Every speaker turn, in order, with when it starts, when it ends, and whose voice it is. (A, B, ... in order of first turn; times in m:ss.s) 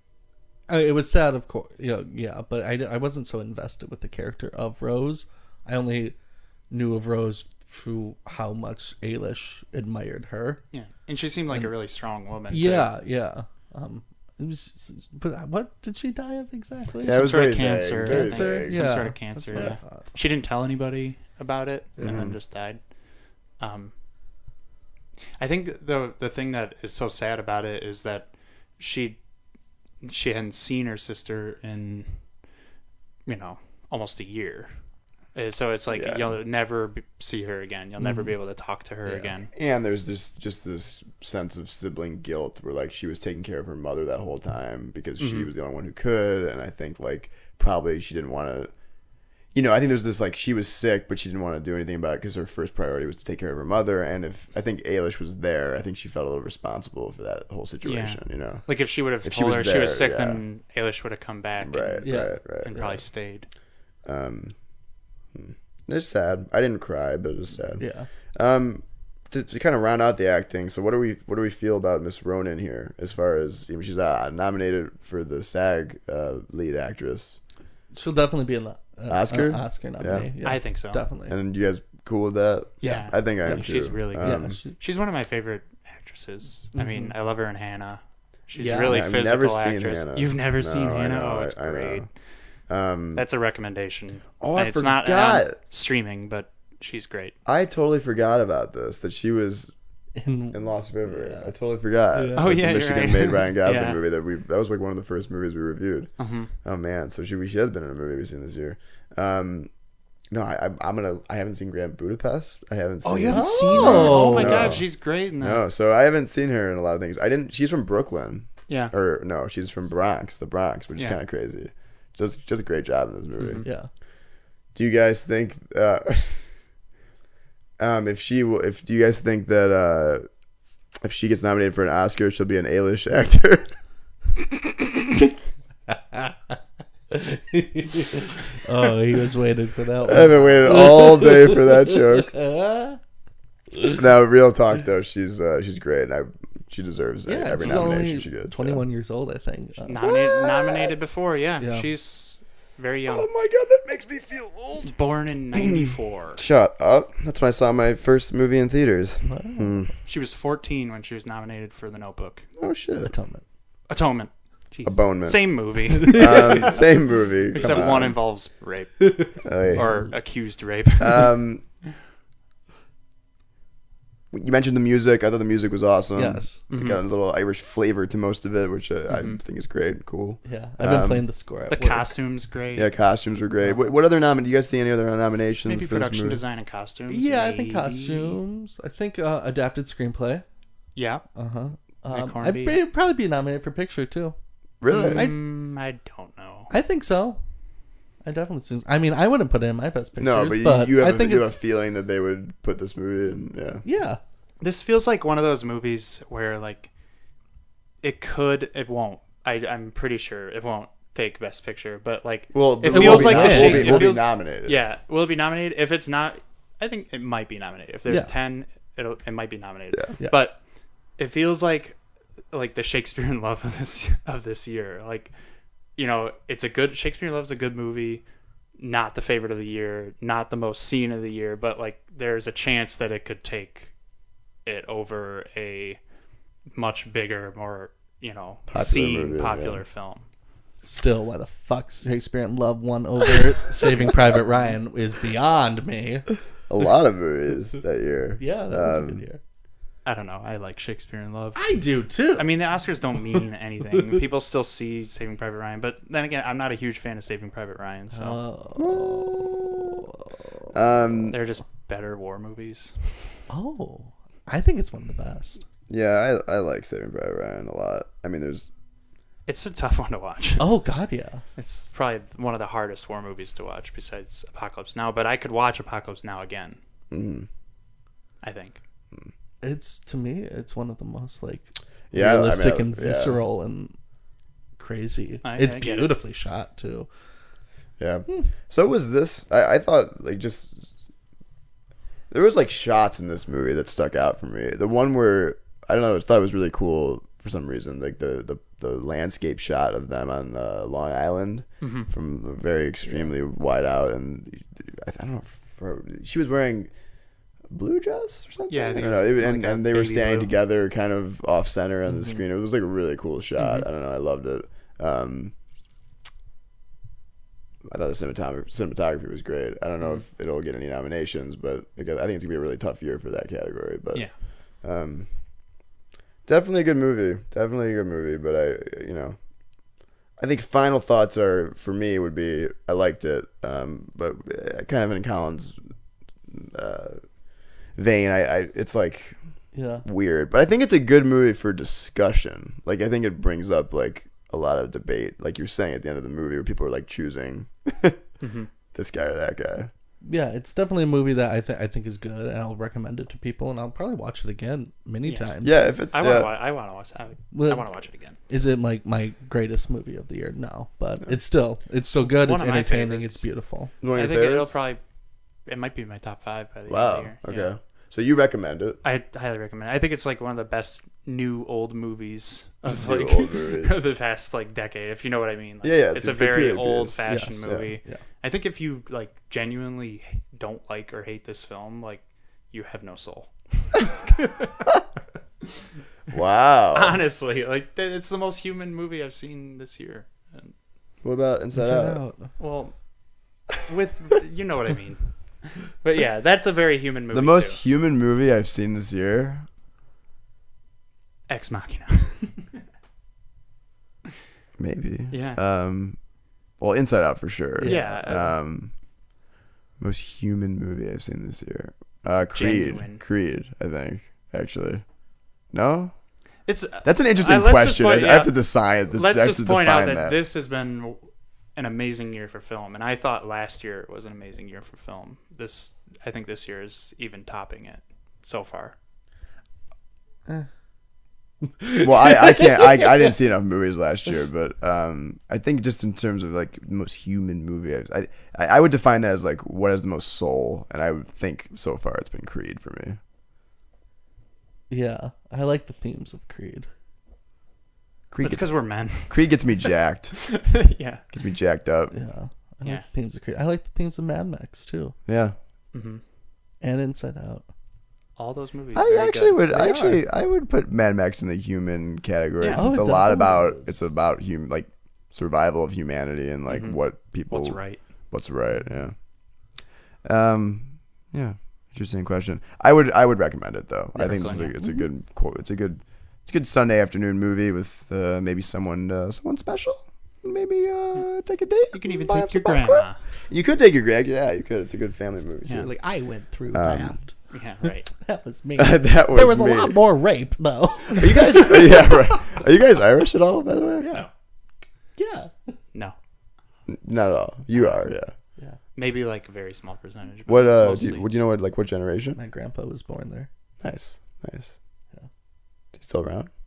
0:00.7-0:06.2 A
0:06.7-0:10.6 A
0:10.7-0:12.9 B
0:12.5-0:17.2 A
0:17.0-0:18.9 C
0:17.1-0:22.8 B
0:18.1-0:20.0 A
0:22.0-0:22.4 C
0:23.6-0:23.9 B
0:25.4-0:29.2 B
0:30.0-0:32.2 B
0:33.2-0:34.7 B
0:35.3-0:39.5 B
0:35.9-0:36.4 C
0:38.0-0:38.3 A
0:39.5-0:48.7 C
0:45.2-0:45.5 B
0:49.5-0:58.6 C
0:57.8-1:03.5 B
0:59.2-1:00.4 C
1:01.6-1:03.0 C
1:02.0-1:03.0 A
1:04.0-1:04.5 C
1:05.3-1:07.8 C
1:07.8-1:08.1 A
1:08.3-1:17.4 C
1:17.9-1:21.4 A
1:19.1-1:20.3 C
1:20.4-1:21.0 B
1:21.3-1:24.6 C
1:22.8-1:32.1 B
1:22.8-1:24.7 A
1:26.7-1:27.1 A
1:28.6-1:29.0 A
1:28.8-1:32.1 C
1:32.7-1:33.2 C
1:33.1-1:37.3 B
1:34.4-1:35.6 C
1:37.4-1:39.7 C
1:40.2-1:41.5 A
1:40.5-1:46.1 C
1:42.1-1:42.5 A
1:42.4-1:44.0 B
1:46.2-1:46.5 B
1:46.6-1:49.7 C
1:50.3-1:54.9 C
1:53.0-1:55.6 B
1:53.3-1:54.8 A
1:55.4-2:03.6 C
2:03.4-2:03.7 B
2:03.6-2:03.9 A
2:04.7-2:06.4 C
2:07.8-2:10.3 C
2:11.0-2:13.7 C
2:15.9-2:16.6 A
2:17.1-2:23.0 A
2:20.0-2:22.3 C
2:20.1-2:20.9 B
2:23.7-2:24.0 A
2:23.9-2:28.8 C
2:27.3-2:30.0 A
2:29.9-2:33.3 B
2:30.0-2:31.0 C
2:31.6-2:31.9 A
2:33.1-2:34.9 C
2:34.8-2:36.4 B
2:35.5-2:39.9 C
2:39.2-2:39.8 A
2:40.0-2:42.4 B
2:42.6-2:43.1 C
2:43.0-2:43.4 A
2:43.9-2:46.9 B
2:44.8-2:48.2 C
2:46.0-2:46.4 A
2:47.5-2:51.3 B
2:47.6-2:47.8 A
2:49.0-2:50.1 A
2:49.4-2:49.9 C
2:51.0-2:51.6 C
2:54.3-3:01.2 C
2:56.1-2:56.6 A
2:56.7-2:57.0 B
2:59.1-2:59.4 B
3:00.4-3:02.1 A
3:01.7-3:02.9 B
3:02.7-3:06.4 C
3:03.6-3:03.9 A
3:05.6-3:08.4 B
3:07.1-3:10.4 A
3:10.9-3:11.2 B
3:11.4-3:14.3 A
3:12.1-3:12.8 B
3:14.8-3:15.3 C
3:14.9-3:16.7 B
3:15.0-3:15.4 A
3:16.7-3:17.4 A
3:18.2-3:21.6 A
3:20.2-3:23.8 C
3:23.8-3:24.2 A
3:24.6-3:26.9 B
3:28.0-3:40.6 B
3:32.5-3:34.8 C
3:32.9-3:34.1 A
3:41.2-3:42.0 B
3:42.5-3:45.3 B
3:46.0-3:48.2 B
3:48.8-3:53.9 B
3:54.6-3:56.0 B
3:56.7-4:00.2 B
3:58.7-3:59.8 C
4:00.8-4:06.3 A
4:06.7-4:09.2 C
4:08.4-4:09.4 A
4:10.0-4:11.7 B
4:11.6-4:12.5 A
4:12.3-4:18.4 B
4:18.1-4:20.7 A
4:18.8-4:20.0 C
4:20.7-4:21.4 C
4:21.3-4:23.4 B
4:23.5-4:25.6 A
4:25.9-4:28.7 C
4:29.5-4:30.6 B
4:30.6-4:31.4 A
4:31.6-4:36.8 B
4:37.1-4:37.5 C
4:38.4-4:38.8 B
4:39.6-4:44.0 A
4:42.1-4:43.4 C
4:44.8-4:47.1 A
4:45.4-4:46.1 B
4:48.0-4:50.9 C
4:52.3-5:06.9 C
5:01.8-5:02.1 B
5:07.7-5:15.5 C
5:08.7-5:10.5 B
5:17.8-5:24.3 C
5:24.8-5:25.3 C
5:26.4-5:29.4 C
5:30.4-5:35.8 C
5:36.5-5:37.2 C
5:38.0-5:39.4 C
5:39.7-5:40.0 A
5:40.0-5:48.2 C
5:48.4-5:48.7 B
5:48.9-5:49.9 C
5:50.2-5:55.8 A
5:55.2-5:55.6 B
5:55.6-5:56.5 C
5:56.1-5:58.4 B
5:57.5-5:57.9 A
5:58.5-6:03.9 A
6:02.4-6:03.4 B
6:04.0-6:04.8 C
6:04.1-6:05.0 B
6:05.6-6:07.7 B
6:06.9-6:09.0 C
6:09.0-6:24.9 B
6:12.8-6:14.0 C
6:15.8-6:17.9 C
6:17.3-6:18.2 A
6:26.3-6:27.2 C
6:26.9-6:30.7 B
6:31.2-6:32.2 C
6:31.7-6:32.5 A
6:32.6-6:32.9 B
6:33.7-6:37.8 B
6:37.3-6:39.6 C
6:41.5-6:42.7 B
6:44.8-6:46.2 C
6:45.3-6:45.6 B
6:46.8-6:48.9 C
6:47.8-6:48.5 A
6:47.8-6:48.5 B
6:50.0-6:55.0 C
6:52.5-6:53.2 B
6:55.7-6:56.1 C
6:56.6-7:01.2 B
6:57.0-7:00.4 C
7:01.8-7:08.9 B
7:11.8-7:13.1 A
7:12.0-7:23.2 C
7:24.9-7:26.9 A
7:28.3-7:30.4 C
7:28.4-7:31.2 B
7:31.3-7:32.1 C
7:32.1-7:35.2 A
7:35.3-7:35.6 C
7:35.9-7:36.2 B
7:36.8-7:37.6 A
7:38.4-7:40.0 B
7:38.9-7:49.2 C
7:39.8-7:40.2 A
7:42.6-7:42.9 B
7:42.7-7:44.0 A
7:46.7-7:48.0 B
7:50.2-8:05.9 C
7:54.2-7:55.0 A
7:54.2-7:54.7 B
8:01.9-8:03.2 B
8:05.8-8:07.3 A
8:06.7-8:07.2 C
8:07.5-8:08.1 B
8:08.2-8:12.1 A
8:08.8-8:10.0 C
8:11.0-8:14.1 C
8:14.0-8:14.3 A
8:15.2-8:15.7 A
8:16.9-8:18.3 C
8:17.7-8:18.0 B
8:18.9-8:21.3 B
8:20.5-8:22.4 C
8:22.4-8:23.5 A
8:23.8-8:24.7 C
8:25.9-8:26.5 C